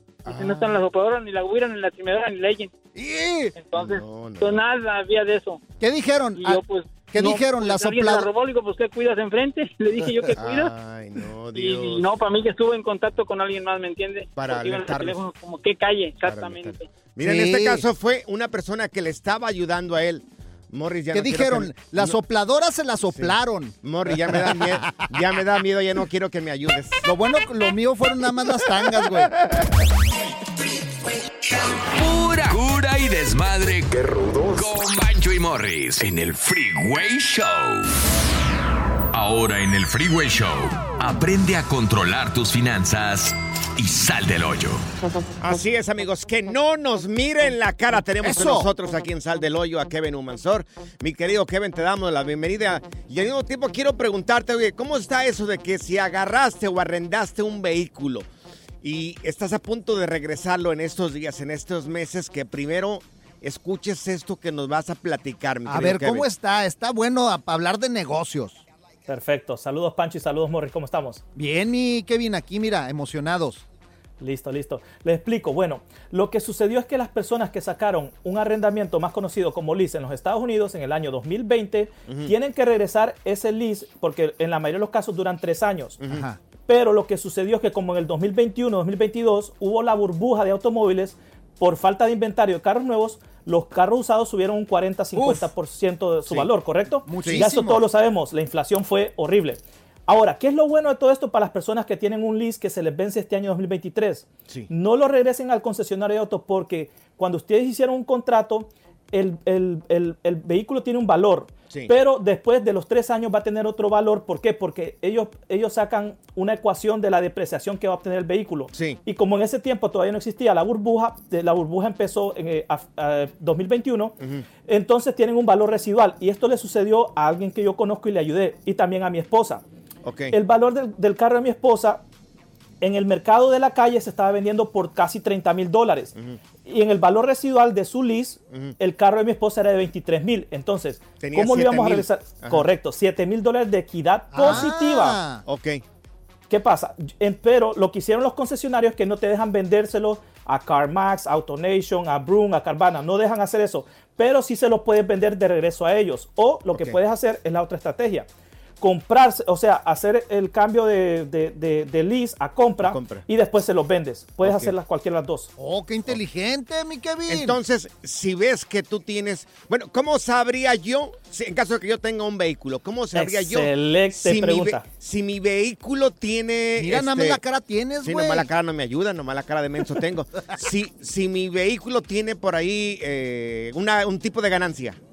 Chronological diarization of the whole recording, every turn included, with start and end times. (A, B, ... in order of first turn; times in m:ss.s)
0:00.2-0:00.8 A
0:00.3-0:02.7 B
0:02.9-0:03.5 C
0:03.6-0:05.6 B
0:03.7-0:04.6 A
0:05.8-0:08.3 C
0:06.4-0:10.7 B
0:10.4-0:12.0 A
0:11.5-0:16.8 B
0:14.4-0:15.2 A
0:16.2-0:22.2 A
0:17.2-0:17.8 C
0:21.1-0:24.9 C
0:23.1-0:27.0 A
0:27.0-0:29.3 C
0:31.9-0:37.9 D
0:39.1-0:44.8 D
0:45.4-0:58.3 A
0:48.2-0:48.7 C
0:58.8-1:06.3 A
1:05.6-1:08.6 C
1:09.1-1:11.2 E
1:11.3-1:13.6 C
1:14.2-1:26.0 E
1:22.1-1:22.3 A
1:26.1-1:26.4 C
1:26.6-2:04.1 E
1:35.1-1:35.5 C
1:37.0-1:37.8 C
1:37.2-1:37.5 A
1:58.7-1:59.0 A
2:04.6-2:09.6 E
2:10.0-2:10.4 A
2:10.3-2:12.0 E
2:12.8-2:16.1 E
2:16.6-2:25.2 E
2:21.2-2:22.7 A
2:24.3-2:25.4 C
2:24.4-2:24.7 A
2:25.4-2:25.8 A
2:26.5-2:38.2 E
2:36.7-2:37.0 A
2:38.8-2:45.5 E
2:42.8-2:43.2 A
2:44.4-2:44.7 A
2:45.6-2:47.6 C
2:47.3-2:57.4 A
2:53.1-2:54.8 E
2:56.8-2:58.5 C
2:58.0-3:05.0 A